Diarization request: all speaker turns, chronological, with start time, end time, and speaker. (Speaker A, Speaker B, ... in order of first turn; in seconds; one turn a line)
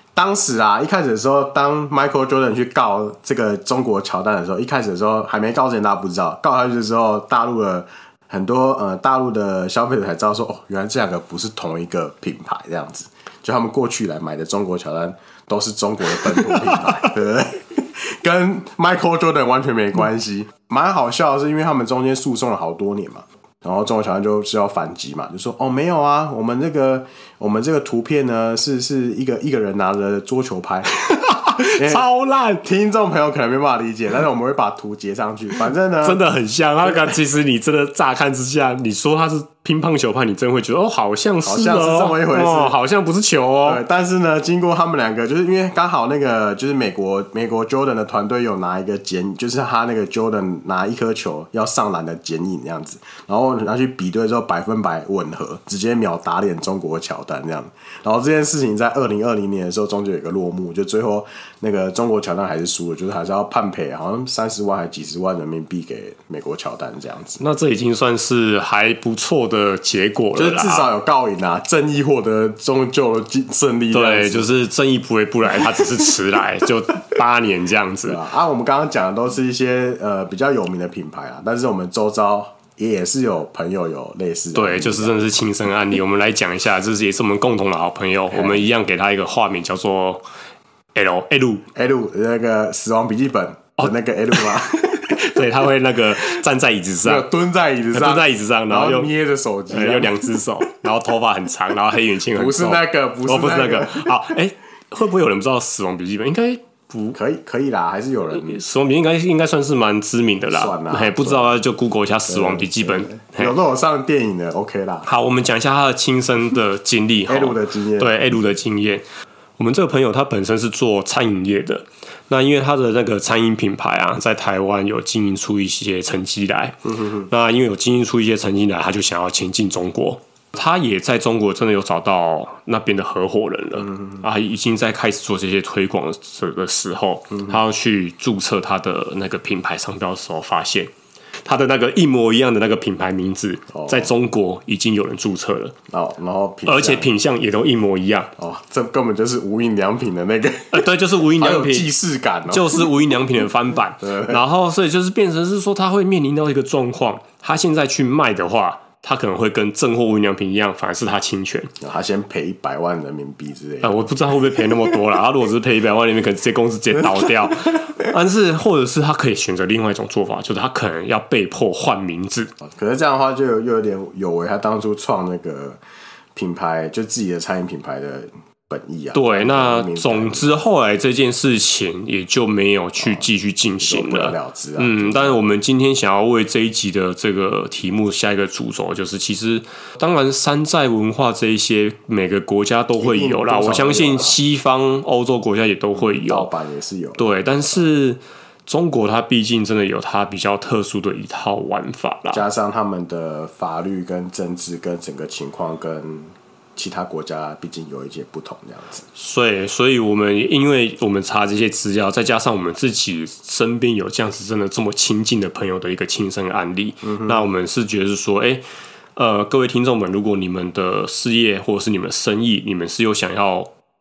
Speaker A: 0.1-30.9
Speaker B: 16.2-16.9
Speaker B: 31.0-32.6
Speaker A: 31.7-32.0
Speaker A: 32.6-36.2
Speaker B: 36.0-43.8
Speaker A: 41.4-42.8
Speaker A: 43.6-67.4
Speaker B: 67.4-70.9
Speaker A: 70.3-74.5
Speaker B: 73.9-78.2
Speaker A: 78.0-85.2
Speaker B: 84.5-90.2
Speaker A: 88.3-88.7
Speaker B: 91.0-91.7
Speaker A: 91.7-95.4
Speaker B: 93.8-97.3
Speaker A: 97.0-100.4
Speaker B: 97.9-99.1
Speaker B: 99.7-107.2
Speaker A: 102.3-104.2
Speaker A: 107.1-108.6
Speaker B: 108.3-113.6
Speaker A: 110.5-111.6
Speaker A: 112.3-115.1
Speaker B: 115.1-119.0
Speaker A: 117.3-118.2
Speaker B: 119.6-140.9
Speaker B: 141.4-145.7
Speaker A: 143.7-144.1
Speaker A: 145.9-147.1
Speaker B: 146.7-148.3
Speaker A: 148.4-152.9
Speaker B: 150.7-151.9
Speaker B: 152.5-161.7
Speaker A: 154.0-154.4
Speaker A: 161.8-164.6
Speaker B: 163.8-172.5
Speaker A: 172.6-175.8
Speaker A: 176.3-180.6
Speaker B: 179.1-196.5
Speaker A: 183.0-183.3
Speaker A: 183.8-185.4
Speaker A: 192.9-194.4
Speaker A: 196.0-197.2
Speaker B: 197.2-202.5
Speaker A: 202.3-209.0
Speaker B: 209.2-218.6
Speaker A: 217.1-217.5
Speaker B: 219.2-223.7